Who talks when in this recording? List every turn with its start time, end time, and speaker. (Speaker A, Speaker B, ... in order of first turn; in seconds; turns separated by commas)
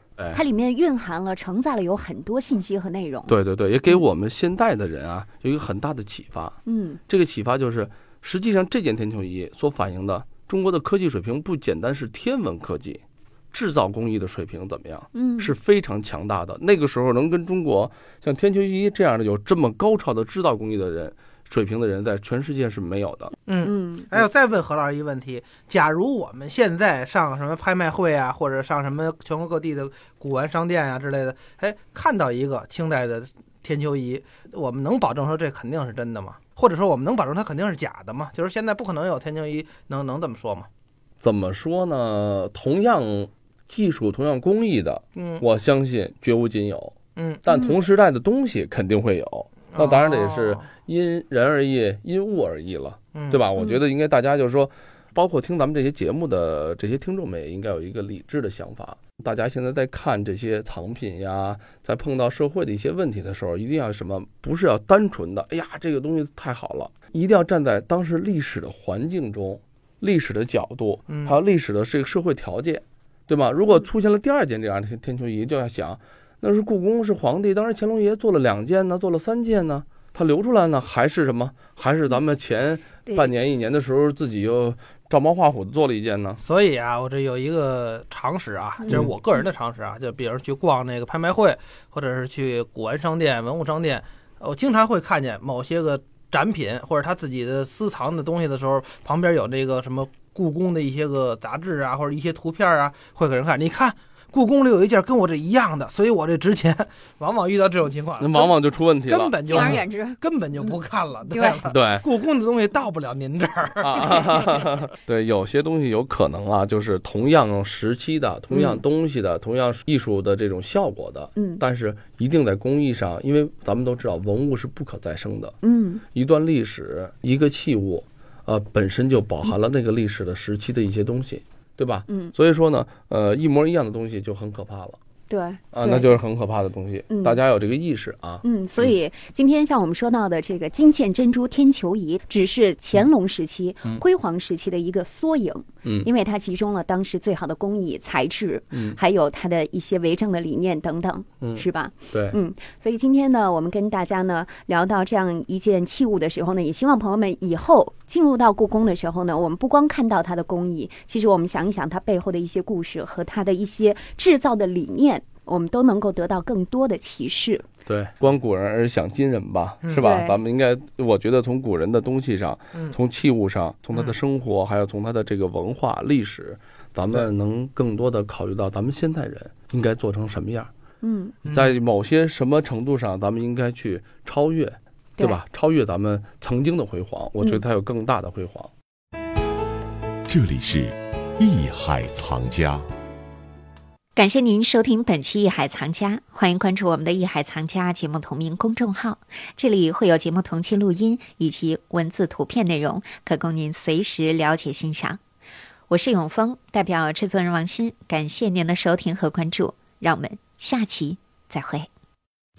Speaker A: 0.3-3.3, Speaker B: 3.3-23.4, Speaker A: 6.7-7.0, Speaker A: 15.2-15.5, Speaker C: 23.5-40.7, Speaker A: 23.6-24.2, Speaker B: 41.2-86.4, Speaker C: 45.2-45.4, Speaker C: 47.2-47.4, Speaker C: 49.7-50.7, Speaker C: 53.1-53.5, Speaker C: 71.1-71.3, Speaker C: 86.4-108.5, Speaker B: 108.2-109.8, Speaker C: 109.1-114.6, Speaker A: 109.5-110.8, Speaker A: 111.3-111.6, Speaker B: 111.7-112.0, Speaker B: 113.8-125.6, Speaker A: 113.9-114.5, Speaker A: 118.5-118.8, Speaker A: 121.4-121.6, Speaker A: 125.6-126.0, Speaker B: 126.1-135.0, Speaker A: 135.3-136.2, Speaker B: 135.7-138.9, Speaker A: 137.1-137.4, Speaker A: 138.4-167.7, Speaker B: 145.8-146.1, Speaker B: 151.4-152.4, Speaker B: 167.9-180.7, Speaker A: 170.0-170.4, Speaker A: 181.0-181.4, Speaker C: 181.4-181.8, Speaker B: 181.5-188.7, Speaker D: 190.3-192.9, Speaker E: 194.2-205.2, Speaker E: 205.9-211.9